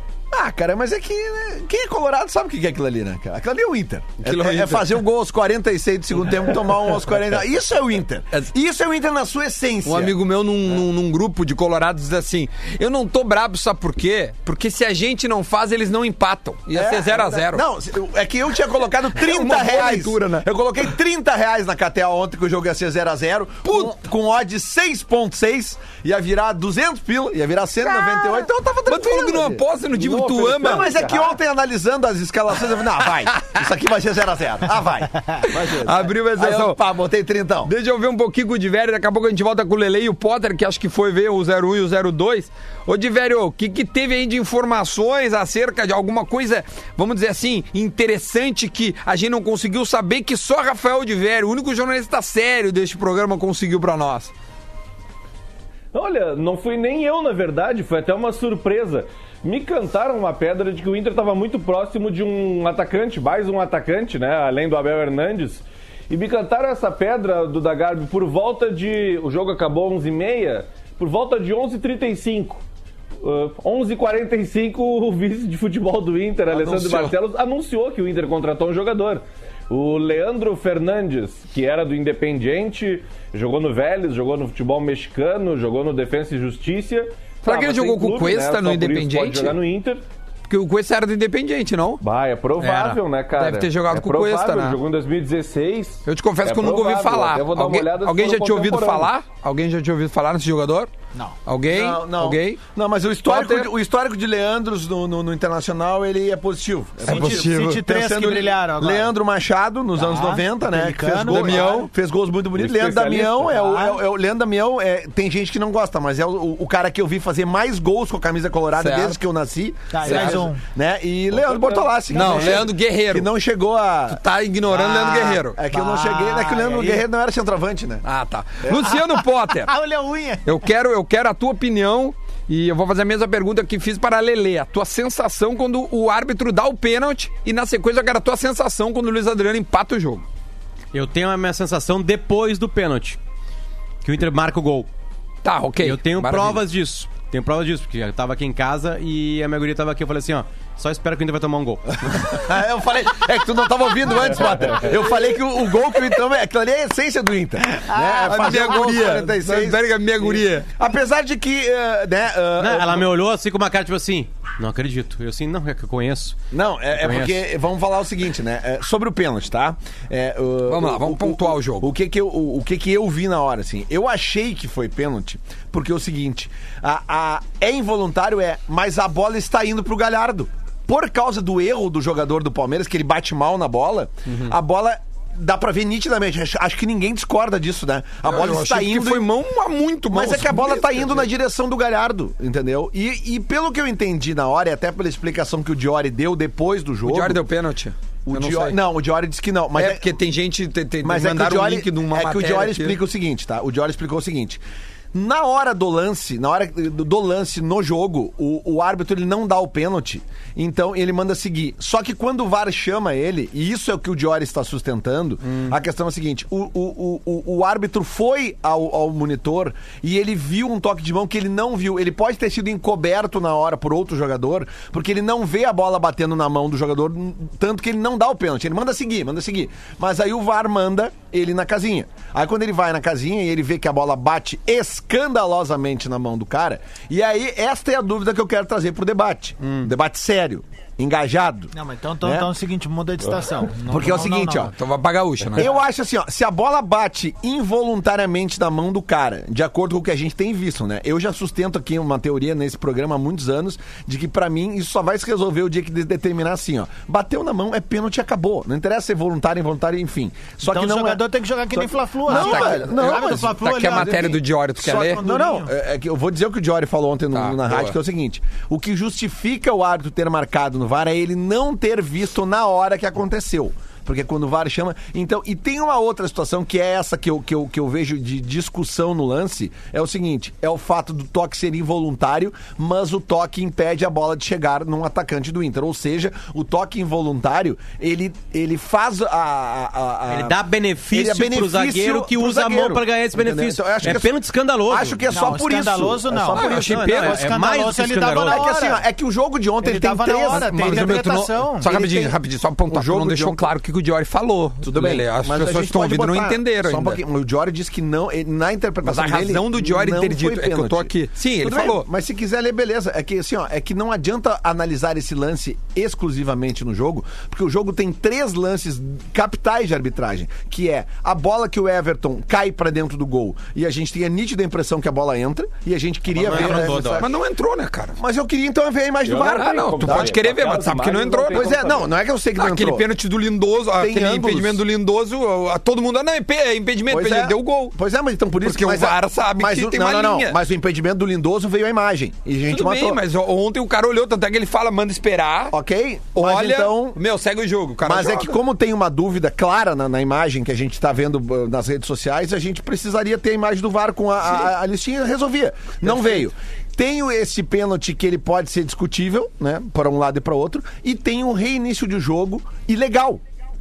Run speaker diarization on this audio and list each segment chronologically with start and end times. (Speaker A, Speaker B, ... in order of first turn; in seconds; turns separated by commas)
Speaker A: 0.3-10.2, Speaker B: 4.2-5.0, Speaker B: 9.8-17.6, Speaker A: 16.7-37.7, Speaker B: 19.1-20.5, Speaker B: 23.7-23.9, Speaker B: 27.9-28.3, Speaker B: 28.9-30.9, Speaker C: 30.0-31.2, Speaker B: 35.5-36.8, Speaker B: 37.6-54.3, Speaker C: 55.9-72.6, Speaker C: 73.2-90.0, Speaker B: 76.5-77.2, Speaker B: 87.5-89.6, Speaker B: 90.5-92.0, Speaker C: 92.0-99.1, Speaker B: 92.6-94.8, Speaker B: 96.1-100.9, Speaker B: 101.5-102.6, Speaker A: 101.7-128.0, Speaker B: 103.2-103.7, Speaker D: 107.0-109.2, Speaker B: 107.1-107.8, Speaker D: 110.0-111.8, Speaker B: 111.3-111.9, Speaker D: 113.4-114.0, Speaker B: 118.8-119.2, Speaker D: 119.9-120.6, Speaker B: 120.0-120.5, Speaker C: 121.3-122.6, Speaker B: 122.1-123.3, Speaker D: 122.2-122.5, Speaker B: 124.1-125.6, Speaker D: 125.7-127.1, Speaker B: 128.1-129.7, Speaker D: 128.7-130.5, Speaker B: 130.4-140.2, Speaker E: 140.9-143.2, Speaker E: 144.0-144.9, Speaker B: 145.4-146.6, Speaker E: 145.8-152.3, Speaker A: 152.1-163.1, Speaker D: 157.9-158.8, Speaker B: 158.2-160.7, Speaker E: 162.6-166.4, Speaker A: 166.5-189.3, Speaker E: 166.9-167.4, Speaker B: 170.7-171.9, Speaker B: 184.3-184.5, Speaker B: 188.3-191.2, Speaker A: 190.1-197.4, Speaker B: 197.1-198.8, Speaker A: 198.3-200.2, Speaker B: 199.8-203.0, Speaker A: 201.0-204.6, Speaker A: 205.1-242.5, Speaker D: 241.7-244.7, Speaker A: 243.9-244.7, Speaker B: 244.0-245.8, Speaker A: 245.6-261.2, Speaker D: 260.6-265.7, Speaker A: 261.8-290.6, Speaker B: 262.3-265.2, Speaker B: 267.3-267.9, Speaker E: 290.3-295.2, Speaker A: 291.1-294.4, Speaker A: 294.9-297.0, Speaker D: 295.3-299.0, Speaker B: 296.5-297.4, Speaker E: 296.6-298.7, Speaker A: 298.4-301.2, Speaker D: 299.8-301.9, Speaker B: 300.5-307.2, Speaker A: 301.8-303.6, Speaker A: 304.8-327.3, Speaker B: 309.0-312.1, Speaker E: 326.3-327.3, Speaker B: 326.5-328.2, Speaker A: 328.2-330.3, Speaker C: 329.2-332.1, Speaker B: 329.4-331.8, Speaker A: 331.5-333.1, Speaker B: 332.6-337.9, Speaker A: 333.9-334.8, Speaker A: 337.1-343.2, Speaker B: 338.6-340.6, Speaker B: 342.7-345.8, Speaker A: 345.7-347.2, Speaker B: 346.4-348.6, Speaker A: 348.0-363.4